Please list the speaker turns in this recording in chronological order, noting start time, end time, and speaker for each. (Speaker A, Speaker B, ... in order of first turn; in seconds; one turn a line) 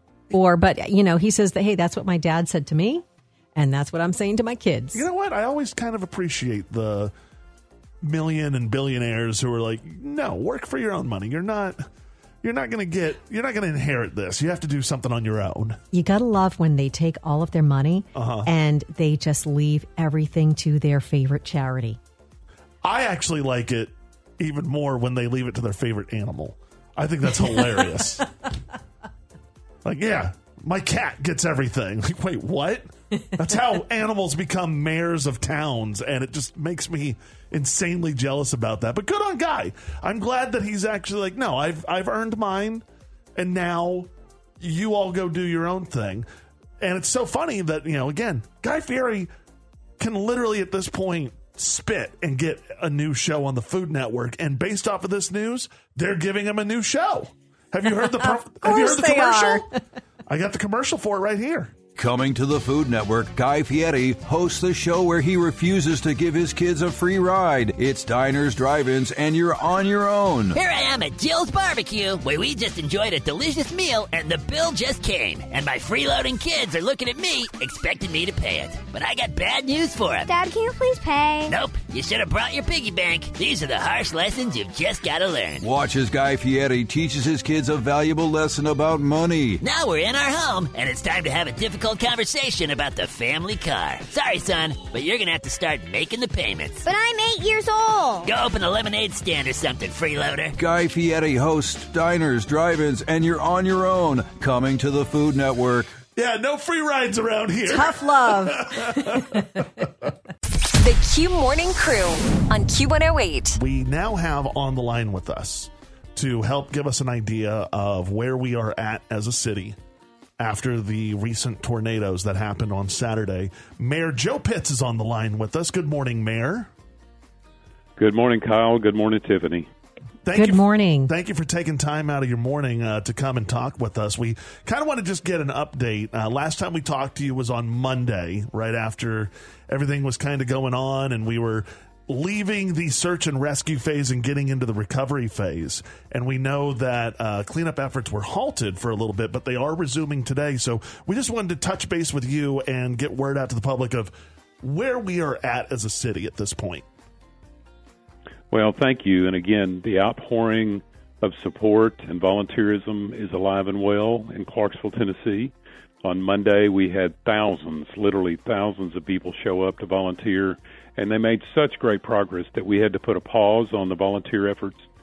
Speaker A: 0.3-3.0
Speaker A: 3.5-5.0
Speaker B: 4.9-7.1
Speaker B: 8.0-11.8
Speaker B: 12.4-15.8
Speaker A: 15.9-22.0
Speaker B: 18.1-18.5
Speaker B: 22.8-28.3
Speaker B: 29.8-42.9
Speaker B: 43.4-46.3
Speaker B: 46.8-49.3
Speaker B: 50.0-59.7
Speaker A: 58.0-59.7
Speaker B: 60.3-61.7
Speaker C: 62.0-70.6
Speaker D: 70.5-80.3
Speaker E: 80.3-81.6
Speaker D: 81.5-85.7
Speaker C: 85.6-89.6
Speaker D: 89.6-96.9
Speaker E: 96.8-98.3
Speaker D: 98.2-100.5
Speaker C: 100.6-105.9
Speaker B: 106.2-109.9
Speaker A: 107.7-109.5
Speaker F: 110.8-113.6
Speaker B: 113.6-119.8
Speaker B: 120.4-126.7
Speaker G: 128.0-129.7
Speaker B: 130.2-156.8
Speaker A: 130.3-131.1
Speaker G: 158.5-174.8